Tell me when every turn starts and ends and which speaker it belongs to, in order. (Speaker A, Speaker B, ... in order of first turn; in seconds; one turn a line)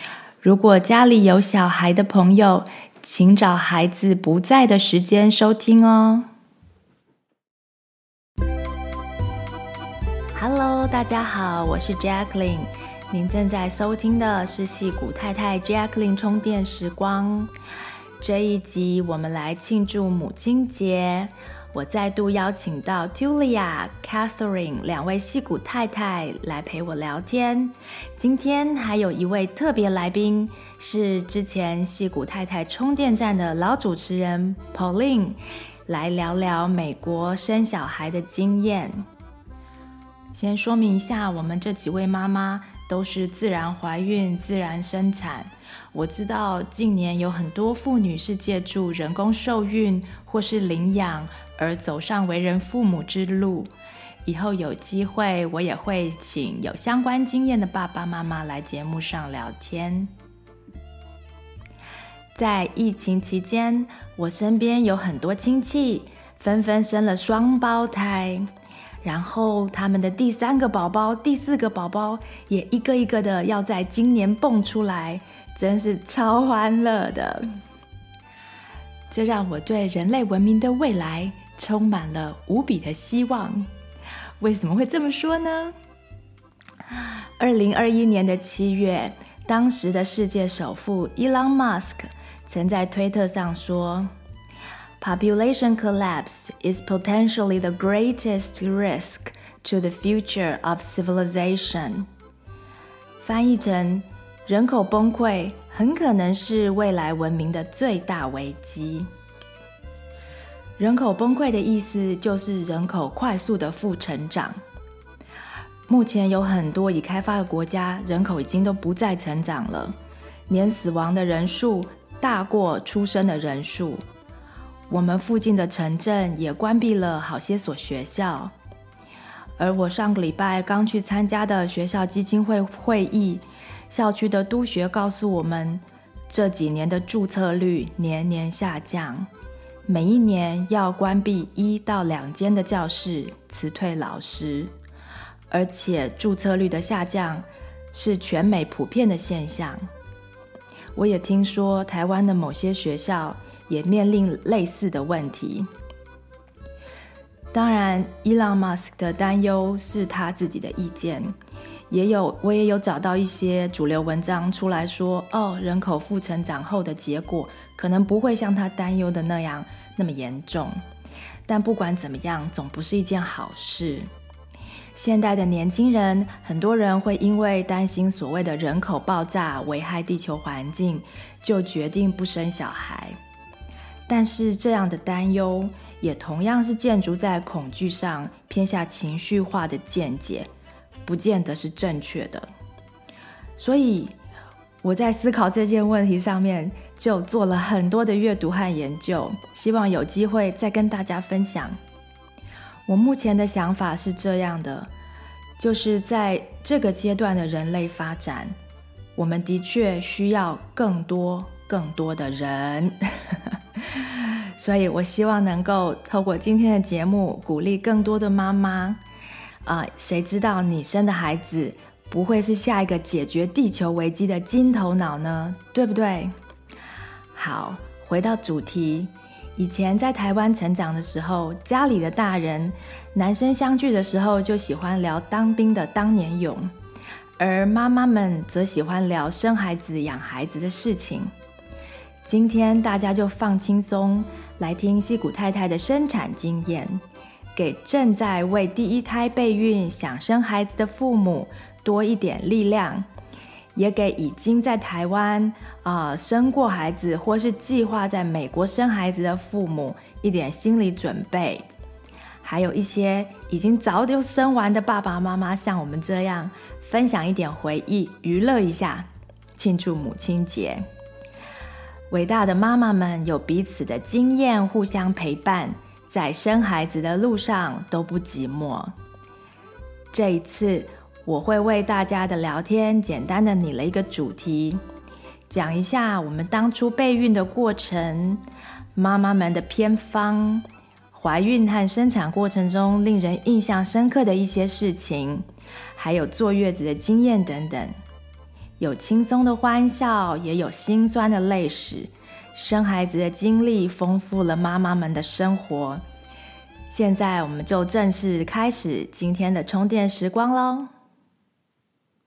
Speaker A: 0.4-6.3
Speaker A: 10.3-17.5
Speaker A: 18.2-39.1
Speaker A: 40.3-53.7
Speaker A: 54.3-60.1
Speaker A: 62.4-68.5
Speaker A: 69.0-77.5
Speaker A: 79.1-83.7
Speaker A: 84.4-85.8
Speaker A: 87.0-94.1
Speaker A: 95.0-102.1
Speaker A: 103.2-109.1
Speaker A: 110.8-114.6
Speaker A: 115.9-120.0
Speaker A: 120.5-124.0
Speaker A: 124.9-128.5
Speaker A: 129.6-139.3
Speaker A: 139.9-144.7
Speaker A: 145.5-149.9
Speaker A: 150.9-155.7
Speaker A: 157.5-161.3
Speaker A: 161.9-170.8
Speaker A: 171.5-174.1
Speaker A: 174.9-183.2
Speaker A: 184.1-190.5
Speaker A: 191.1-192.5
Speaker A: 193.6-194.2
Speaker A: 194.8-201.8
Speaker A: 202.9-204.9
Speaker A: 205.6-208.6
Speaker A: 209.2-219.0
Speaker A: 219.7-226.3
Speaker A: 227.3-236.7
Speaker A: 237.4-241.3
Speaker A: 242.2-247.0
Speaker A: 247.6-253.1
Speaker A: 253.8-261.7
Speaker A: 262.4-270.9
Speaker A: 272.1-278.9
Speaker A: 280.1-284.8
Speaker A: 285.5-288.4
Speaker A: 288.9-295.4
Speaker A: 296.0-297.9
Speaker A: 298.8-306.0
Speaker A: 306.9-310.9